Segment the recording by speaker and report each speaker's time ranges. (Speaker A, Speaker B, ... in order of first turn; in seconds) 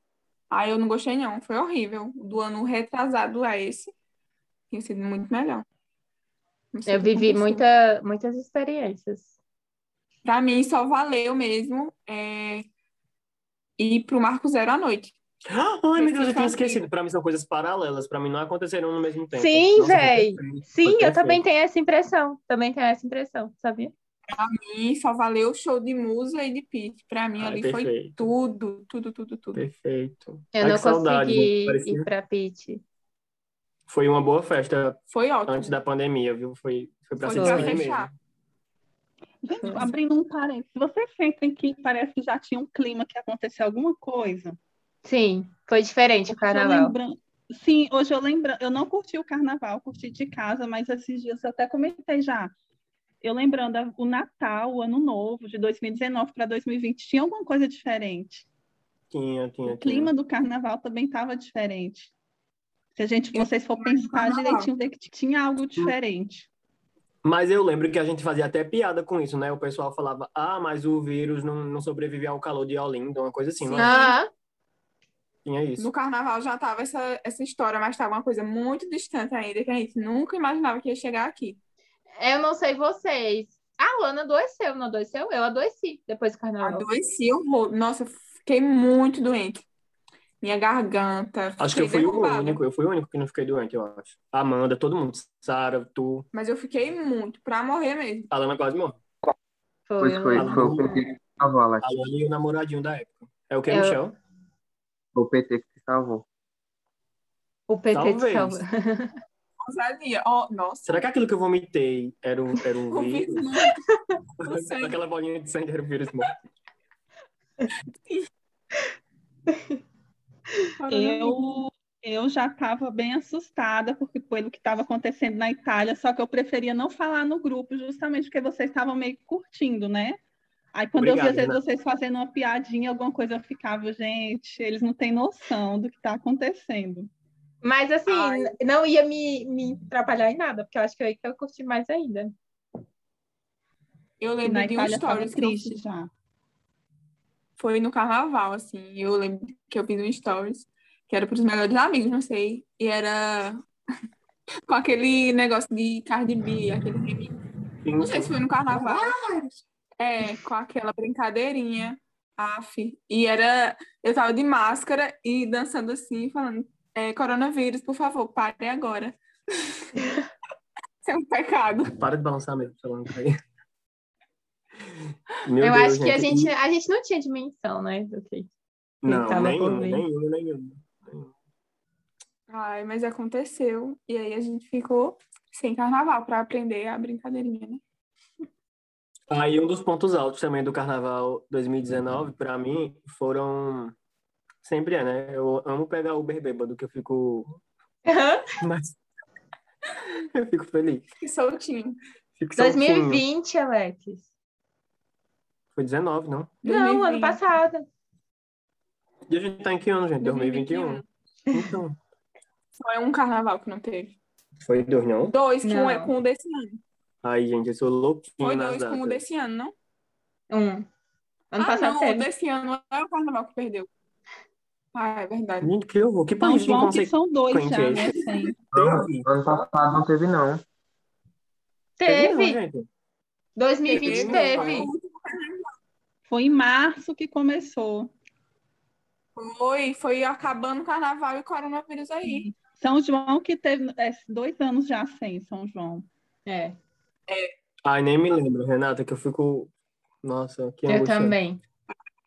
Speaker A: 0.5-3.9, 4.7-5.7, 6.7-7.6, 10.2-12.7, 13.8-15.2, 16.0-16.8, 24.3-29.6, 35.1-35.8, 37.2-38.1, 63.3-64.7, 73.6-74.1, 75.8-81.6, 86.6-89.7, 90.4-92.6, 96.3-98.3, 109.6-111.0, 112.9-113.8, 114.4-115.0, 120.8-121.4, 138.1-138.5, 144.2-145.8, 147.6-153.6, 154.7-157.4, 158.0-159.2, 160.0-169.9, 171.0-172.0, 182.5-187.8, 201.2-202.0, 206.6-207.4, 210.2-211.0, 212.8-214.2, 215.3-216.8, 218.4-219.7, 221.6-223.9, 224.9-225.7, 233.9-235.7, 239.4-242.5
Speaker B: 6.9-9.3, 19.3-23.9, 30.6-32.8, 37.4-37.8, 39.6-39.9, 45.0-47.0, 73.8-74.3, 82.2-86.9, 99.9-101.0, 103.7-104.0, 107.7-109.1, 137.6-142.3, 175.6-178.5, 179.1-180.1, 198.1-198.5, 202.6-204.2, 206.6-207.9, 215.6-216.1, 220.5-220.9, 221.5-222.3, 232.0-232.6, 233.6-234.9, 246.5-246.8, 250.9-251.6
Speaker C: 15.5-21.4, 27.4-28.2, 29.6-32.1, 33.9-38.1, 59.1-60.1, 67.2-74.0, 75.5-75.9, 91.6-96.3, 98.3-99.0, 100.4-100.9, 101.8-104.2, 107.9-108.6, 110.9-113.5, 114.4-116.3, 131.0-131.6, 157.8-158.3, 172.0-173.4, 175.4-176.5, 179.0-181.3, 189.3-193.9, 194.6-197.6, 198.6-199.0, 200.3-201.1, 202.4-203.2, 205.8-206.6, 209.3-212.0, 214.6-215.3, 217.2-219.2, 225.6-229.2, 232.1-232.9, 234.0-234.9, 247.8-249.7, 250.2-251.4
Speaker D: 39.4-44.6, 46.3-52.5, 53.2-58.5, 59.7-62.1, 63.0-66.5, 120.9-130.2, 130.7-137.1, 144.4-146.1, 226.4-228.6, 236.3-238.1, 242.2-246.1
Speaker E: 100.0-101.9, 105.1-106.2, 228.7-230.6